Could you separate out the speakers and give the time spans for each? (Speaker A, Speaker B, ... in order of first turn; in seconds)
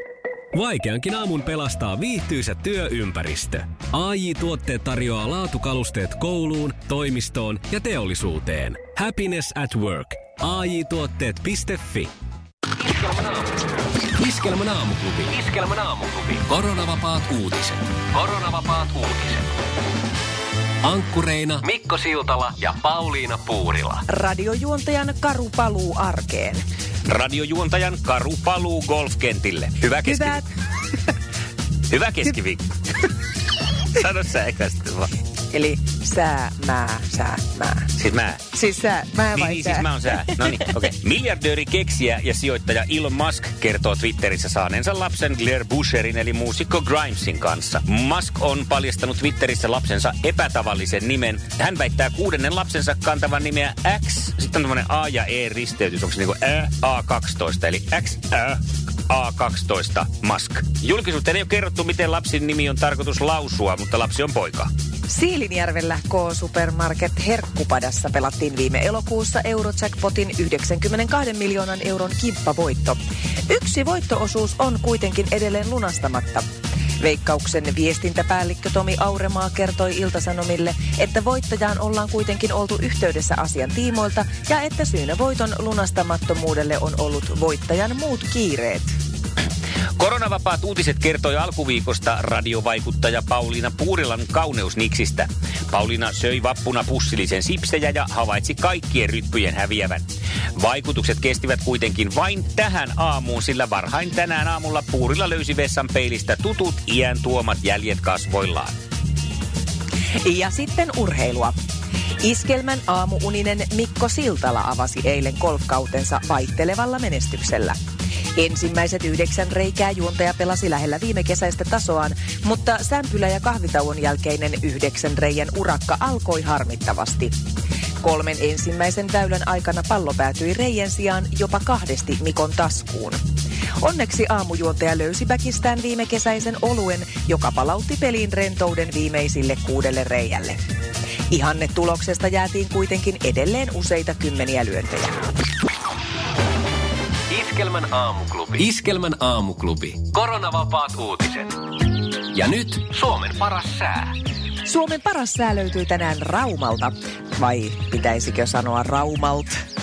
Speaker A: 0.5-12.1, 12.8-13.6, 14.2-19.5, 20.8-24.0, 147.3-151.6, 152.3-154.2
Speaker B: 24.1-26.6, 30.0-30.4, 35.5-37.9, 38.5-40.6, 65.1-76.5, 77.0-88.9, 110.2-111.5, 112.2-117.8, 118.3-127.3, 128.0-133.2, 133.8-140.6, 141.3-145.1, 154.6-159.6
Speaker C: 27.1-30.4, 31.9-32.7, 33.9-35.1, 38.0-38.4, 39.3-64.7, 90.0-108.8